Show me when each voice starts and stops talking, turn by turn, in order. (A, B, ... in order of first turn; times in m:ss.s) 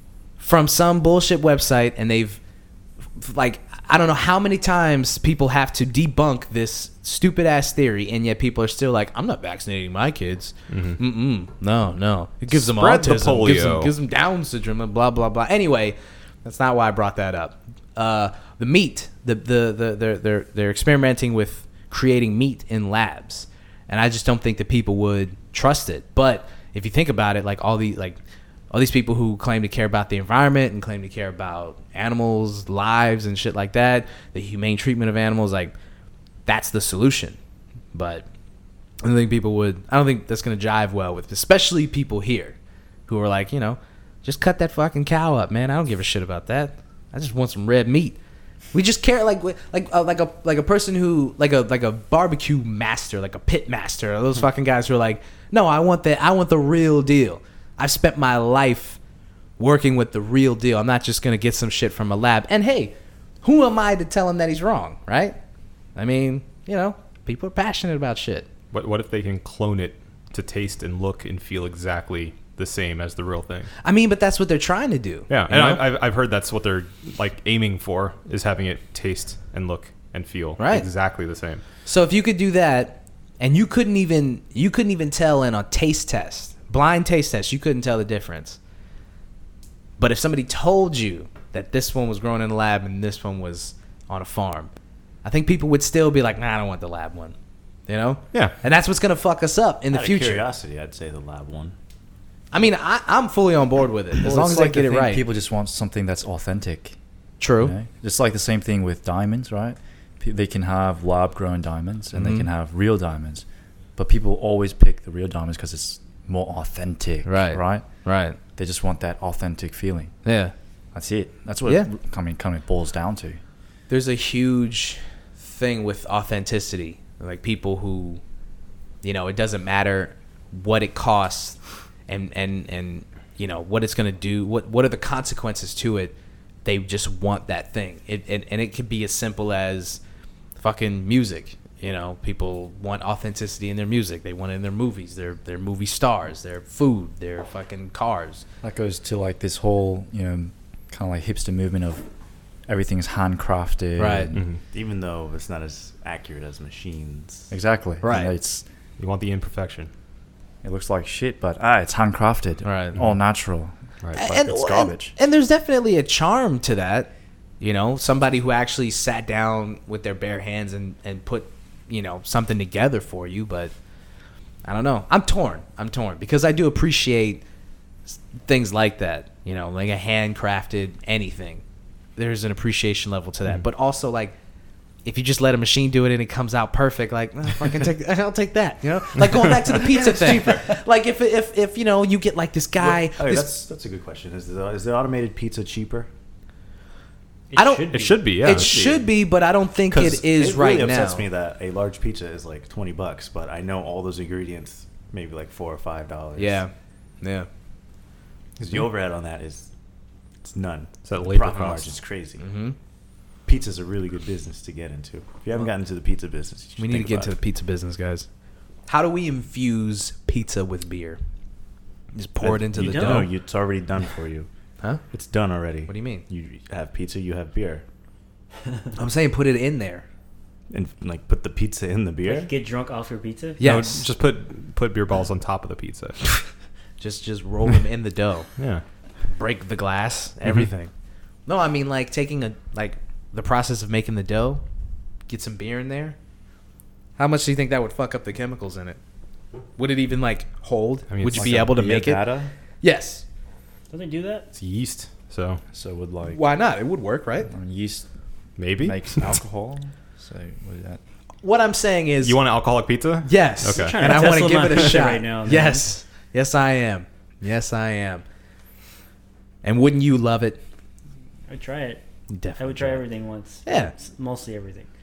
0:00.4-0:02.4 A
0:03.2-0:28.2 A
0:10.7-0:11.0 B
0:12.5-0:13.9 B
0:28.7-0:35.8 A
0:36.5-0:37.4 A
0:37.9-0:38.3 A
0:39.0-0:42.6 A
0:43.1-0:48.2 A
0:48.7-0:59.0 A
0:59.6-1:05.4 A
1:06.0-1:08.5 A
1:08.7-1:13.7 B
1:13.8-1:15.8 A
1:15.3-1:21.6 B
1:20.6-1:20.9 A
1:21.8-1:28.6 A
1:30.0-1:34.7 A
1:35.2-1:37.4 A
1:37.9-1:40.4 A
1:39.9-1:41.8 C
1:42.5-1:45.2 A
1:44.2-1:47.0 D
1:47.4-1:47.8 A
1:47.6-1:53.4 D
1:52.1-1:52.5 A
1:54.0-1:57.8 D
1:57.2-1:58.4 A
1:58.5-2:00.2 D
2:00.2-2:00.5 A
2:00.9-2:03.4 D
2:03.9-2:08.2 A
2:09.0-2:16.1 A
2:16.6-2:20.0 A
2:20.6-2:28.4 A
2:28.6-2:32.0 D
2:32.7-2:34.4 D
2:34.0-2:34.3 A
2:34.3-2:34.6 B
2:34.7-2:37.5 C
2:37.5-2:38.6 D
2:38.0-2:38.3 A
2:39.0-2:39.9 B
2:40.6-2:45.1 D
2:42.6-2:43.0 A
2:44.2-2:53.7 A
2:54.6-2:57.4 A
2:58.1-3:01.6 A
3:02.2-3:04.4 A
3:05.0-3:13.5 A
3:10.2-3:10.6 E
3:12.8-3:16.1 C
3:17.5-3:18.6 E
3:17.6-3:21.3 A
3:17.9-3:18.8 B
3:18.7-3:19.1 C
3:19.9-3:26.6 C
3:26.4-3:27.5 A
3:28.6-3:29.7 C
3:30.4-3:32.5 C
3:31.0-3:32.0 B
3:32.4-3:32.8 A
3:33.5-3:37.4 C
3:36.8-3:38.3 A
3:38.9-3:41.2 A
3:42.1-3:43.3 A
3:42.4-3:44.5 C
3:42.8-3:43.3 E
3:45.1-3:47.8 C
3:45.9-3:46.2 A
3:49.0-3:50.0 A
3:50.7-3:52.5 C
3:52.2-3:53.6 E
3:53.6-3:54.0 A
3:53.6-3:56.3 B
3:57.0-3:58.5 A
3:58.6-3:58.8 B
3:59.4-4:00.9 A
4:01.5-4:04.6 A
4:05.3-4:06.2 A
4:07.2-4:09.0 A
4:09.8-4:12.2 A
4:11.1-4:11.8 B
4:11.3-4:12.5 D
4:12.8-4:13.2 A
4:13.9-4:14.5 E
4:14.6-4:15.6 B
4:15.7-4:16.4 D
4:16.3-4:17.5 A
4:17.5-4:18.1 D
4:18.6-4:19.4 B
4:18.8-4:21.0 D
4:21.4-4:22.4 A
4:22.2-4:24.2 B
4:23.2-4:28.2 A
4:23.7-4:25.9 E
4:29.6-4:30.6 A
4:31.5-4:32.0 E
4:32.3-4:33.0 A
4:32.6-4:34.9 E
4:33.7-4:33.9 A